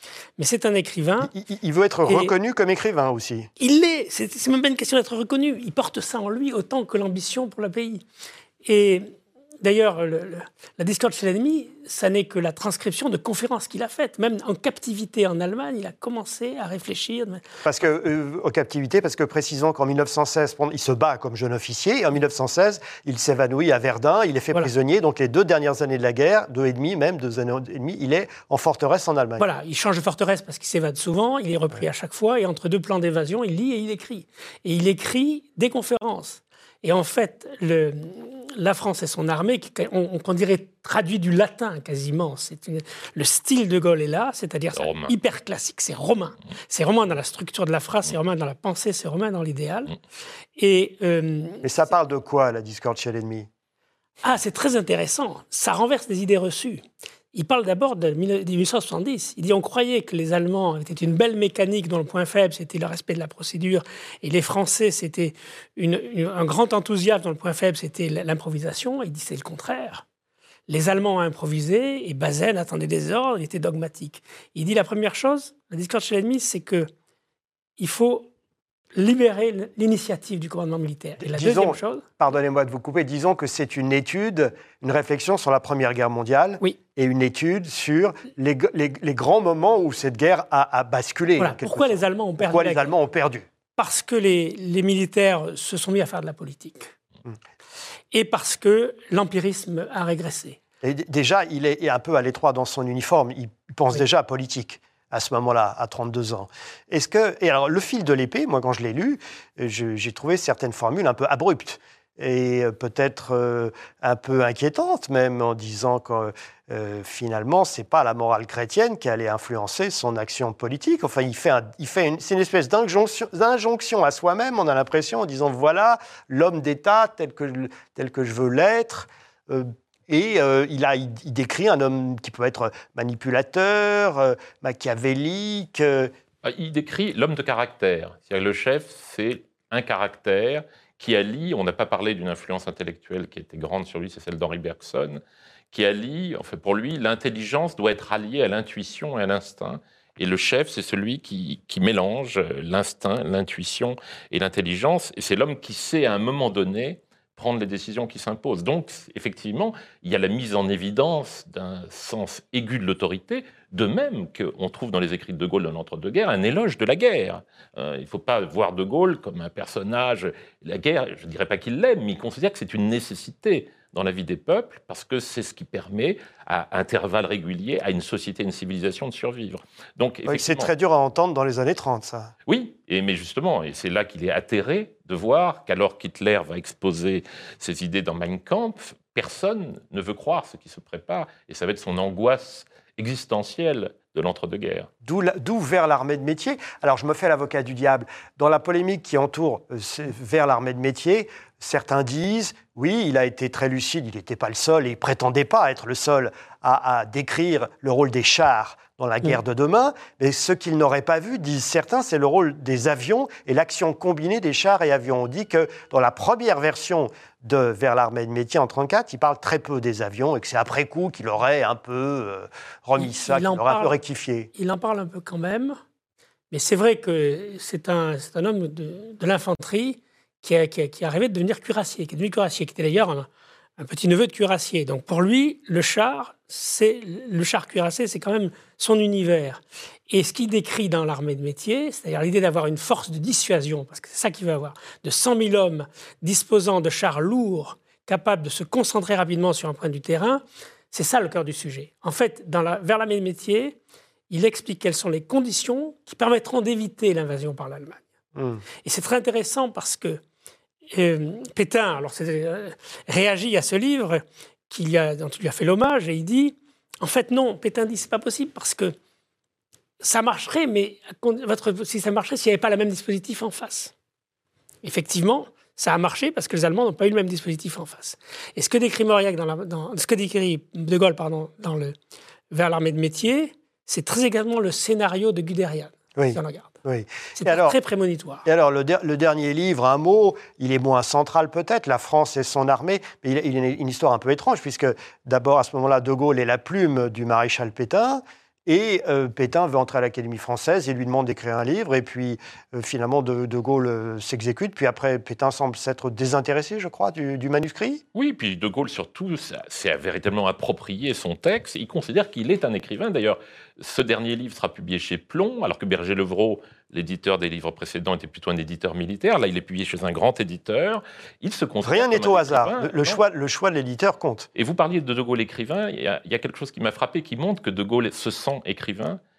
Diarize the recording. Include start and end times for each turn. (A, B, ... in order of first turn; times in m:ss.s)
0:00.4-0:01.3 A
0:01.2-0:03.5 B
0:02.1-0:02.3 A
0:03.6-0:08.0 A
0:08.6-0:17.4 A
0:17.6-0:29.5 B
0:29.4-0:50.0 A
0:44.7-0:45.2 C
0:50.6-0:51.7 A
0:51.6-0:53.5 B
0:54.2-1:10.0 A
1:10.7-1:16.9 A
1:17.8-1:18.3 A
1:19.0-1:22.1 A
1:21.2-1:33.5 B
1:31.4-1:32.9 A
1:33.8-1:36.9 A
1:38.1-1:40.6 A
1:40.8-2:16.1 B
2:16.4-3:00.7 C
3:00.3-3:02.3 B
3:02.5-3:14.9 C
3:15.0-3:44.5 B
3:43.0-3:43.9 A
3:44.5-3:45.8 A
3:46.5-4:13.8 A
4:14.3-4:18.0 A
4:18.4-4:18.6 B
4:18.8-4:20.2 A
4:20.9-4:29.0 A
4:30.0-4:33.9 A
4:34.8-4:42.0 A
4:42.5-4:46.8 A
4:46.2-4:47.8 B
4:47.4-4:48.4 A
4:48.4-5:08.0 B
5:08.2-5:23.2 C
5:21.8-5:24.5 B
5:24.6-5:29.2 C